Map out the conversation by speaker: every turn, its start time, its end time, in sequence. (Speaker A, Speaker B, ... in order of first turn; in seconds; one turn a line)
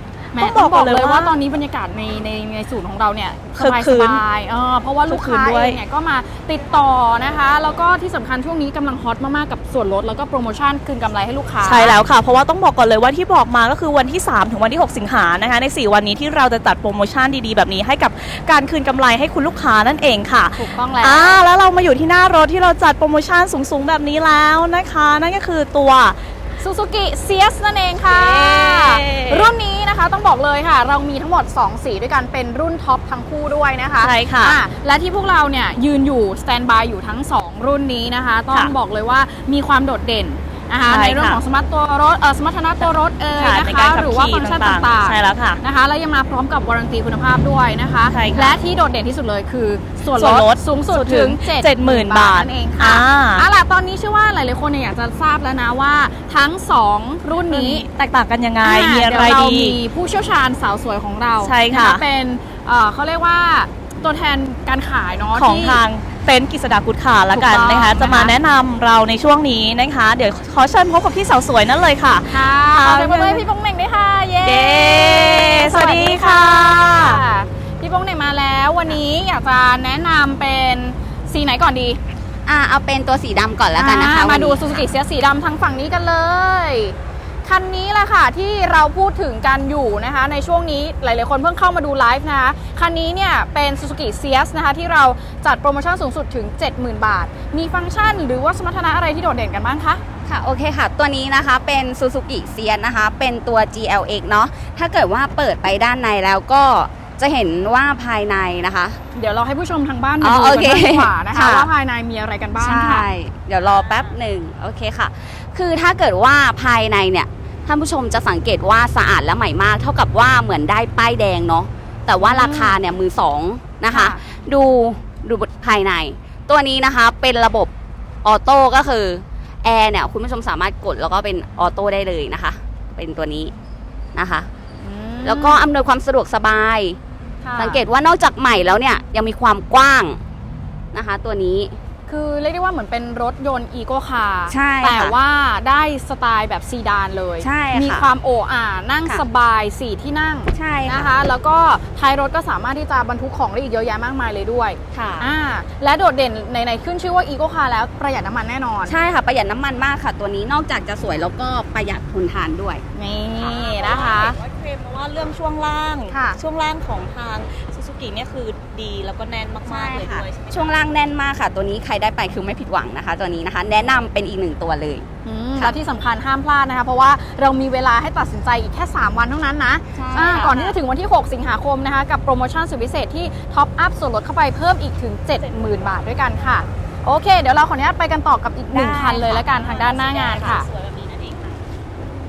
Speaker A: 0.3-1.3
Speaker B: 0.3-11.9
Speaker A: 3.6-4.2
Speaker A: 5.1-5.8
Speaker A: 11.6-26.2
Speaker B: 20.5-21.4
Speaker B: 26.6-57.9
Speaker A: 28.1-29.5
Speaker A: 34.0-34.6
Speaker A: 40.9-41.4
Speaker A: 43.4-45.6
Speaker A: 48.1-48.5
Speaker A: 50.1-53.5
Speaker A: 57.5-59.8
Speaker B: 58.6-65.8
Speaker A: 61.4-62.0
Speaker A: 65.3-73.4
Speaker B: 67.3-68.3
Speaker B: 72.3-82.0
Speaker A: 74.4-77.2
Speaker C: 82.5-84.8
Speaker B: 83.8-100.0
Speaker C: 100.2-109.0
Speaker B: 109.1-113.1
Speaker C: 110.2-111.7
Speaker C: 112.6-127.7
Speaker A: 113.8-114.1
Speaker B: 122.2-122.7
Speaker B: 123.9-124.2
Speaker C: 128.2-133.5
Speaker C: 134.1-134.5
Speaker B: 134.8-135.6
Speaker C: 135.2-137.0
Speaker B: 137.4-137.8
Speaker C: 137.6-140.2
Speaker C: 140.9-141.8
Speaker B: 142.1-158.9
Speaker C: 144.5-145.1
Speaker C: 147.4-148.1
Speaker C: 150.5-151.1
Speaker C: 154.9-155.3
Speaker C: 158.8-162.8
Speaker B: 162.9-164.4
Speaker A: 163.4-170.7
Speaker B: 166.1-166.4
Speaker C: 169.6-175.1
Speaker B: 175.2-190.7
Speaker C: 179.9-180.7
Speaker A: 185.4-185.9
Speaker C: 188.7-189.2
Speaker A: 189.0-191.6